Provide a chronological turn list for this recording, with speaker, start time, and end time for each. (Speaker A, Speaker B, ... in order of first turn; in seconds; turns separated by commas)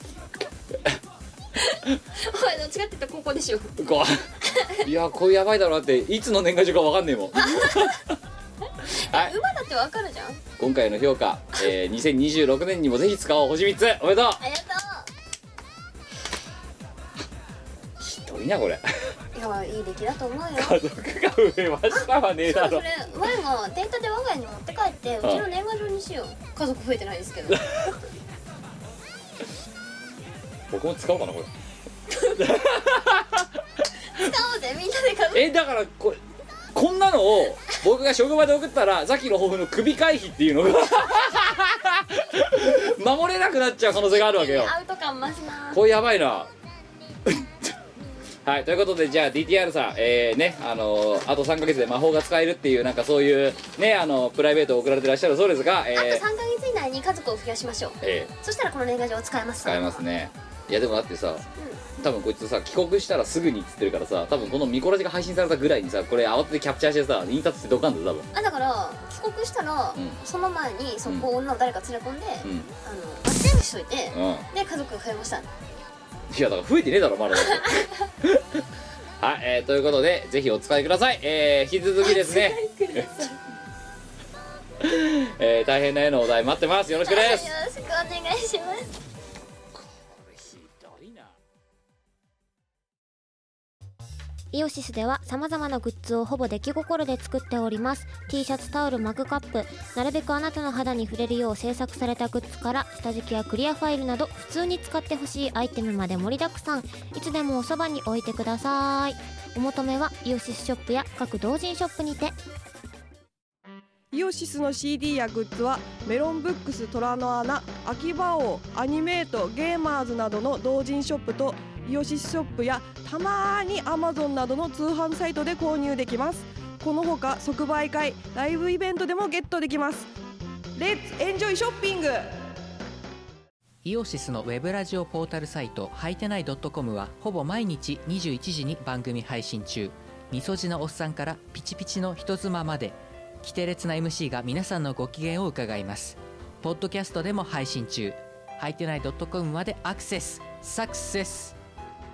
Speaker A: 1.6-3.8, Speaker B: 3.8-4.2, Speaker A: 4.5-4.8, Speaker B: 4.8-8.0, Speaker A: 7.4-8.0, Speaker A: 8.9-10.4, Speaker B: 9.1-9.3, Speaker B: 10.6-14.4, Speaker A: 14.4-15.1, Speaker B: 18.0-18.8, Speaker A: 19.3-20.8, Speaker B: 20.6-22.8, Speaker A: 21.9-27.7, Speaker B: 30.7-31.5, Speaker A: 32.1-32.4, Speaker B: 32.3-33.5, Speaker A: 34.1-35.5, Speaker B: 35.3-36.2, Speaker B: 36.7-44.7, Speaker A: 44.0-45.8, Speaker B: 45.7-46.5, Speaker B: 48.5-56.2, Speaker A: 56.0-60.0, Speaker B: 58.0-58.3, Speaker B: 59.6-61.4, Speaker B: 62.0-68.3, Speaker A: 68.3-75.5, Speaker B: 72.4-72.7, Speaker B: 74.1-74.5, Speaker B: 76.3-78.6, Speaker A: 77.4-77.8, Speaker B: 79.2-83.3, Speaker A: 82.0-83.4, Speaker B: 84.8-87.5, Speaker A: 87.0-88.9, Speaker B: 89.8-91.3, Speaker C: 94.5-112.4, Speaker D: 114.1-130.1, Speaker D: 130.8-132.3, Speaker E: 133.8-151.6